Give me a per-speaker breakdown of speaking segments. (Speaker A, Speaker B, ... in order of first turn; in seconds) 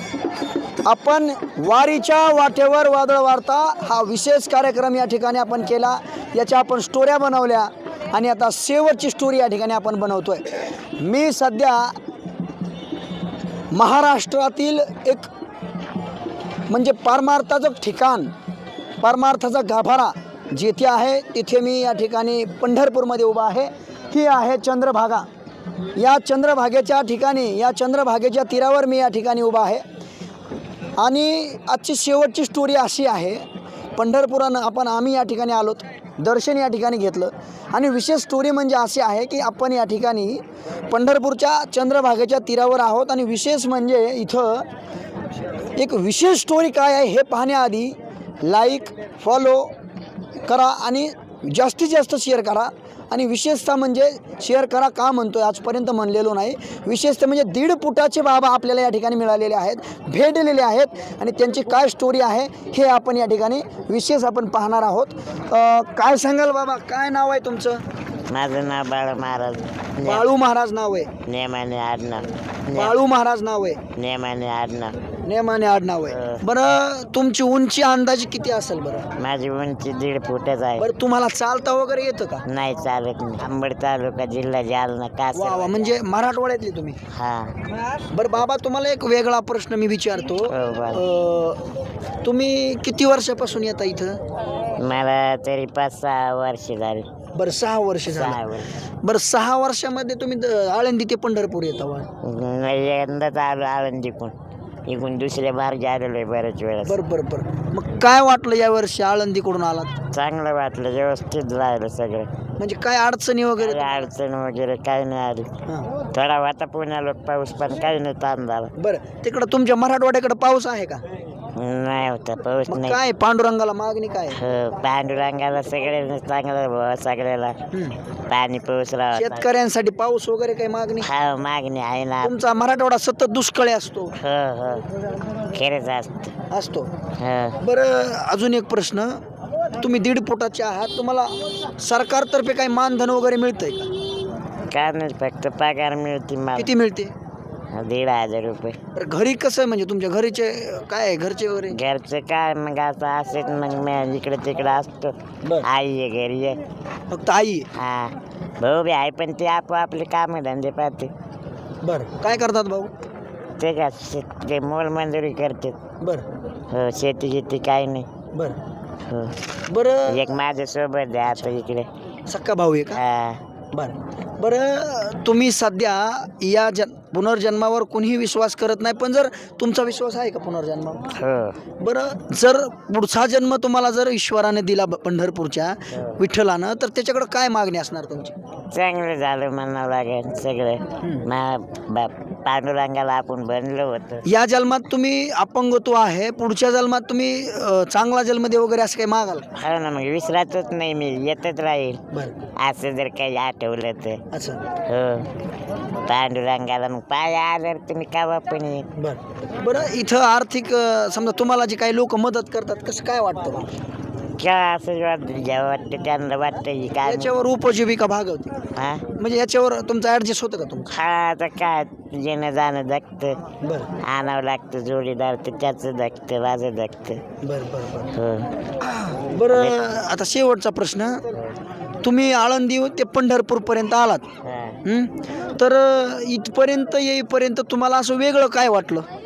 Speaker A: 0.8-11.9, 13.7-15.3, 16.7-18.3, 19.0-25.3, 26.0-29.8, 31.0-33.5, 34.0-44.7, 45.8-49.7, 50.5-67.8, 70.0-71.1, 72.7-73.8, 75.2-79.1, 80.8-82.5, 85.3-87.0, 88.1-91.6, 92.2-94.2, 97.3-98.4, 99.0-102.1, 106.8-110.0, 112.6-113.9, 118.8-121.0, 122.7-124.4, 127.7-128.0, 129.1-131.1, 132.2-134.2, 136.5-136.9, 137.6-139.2, 139.8-143.9, 146.6-147.1, 148.9-151.8, 157.1-157.7, 161.8-162.9, 166.0-166.3, 168.3-168.6, 169.7-170.3, 172.3-173.0, 173.7-181.2, 181.8-188.3, 191.0-191.3, 194.2-199.5, 204.3-204.6, 209.0-213.7, 217.0-220.9, 223.6-223.9, 227.4-228.1, 228.8-231.3, 232.0-234.3, 234.8-239.1
Speaker B: 68.3-70.3, 71.3-73.0, 74.0-75.0, 76.1-76.4, 79.2-80.9, 82.5-86.0, 87.1-87.6, 90.5-91.0, 94.8-97.1, 98.0-98.8, 102.2-104.3, 104.9-107.0, 110.1-112.3, 113.6-115.5, 116.1-118.7, 121.5-123.0, 124.3-127.6, 128.3-129.5, 131.0-132.3, 134.2-134.9, 135.5-136.3, 137.2-137.6, 144.7-146.7, 147.7-148.8, 151.7-156.6, 157.7-161.1, 163.6-165.8, 166.7-168.1, 169.1-169.4, 170.1-171.9, 172.9-173.4, 181.1-181.6, 188.7-194.3, 199.6-202.0, 202.6-204.2, 204.9-205.3, 206.1-208.9, 214.4-217.3, 218.8-219.1, 220.9-223.4, 224.0-227.2, 228.1-228.6, 229.5-229.8, 234.4-234.8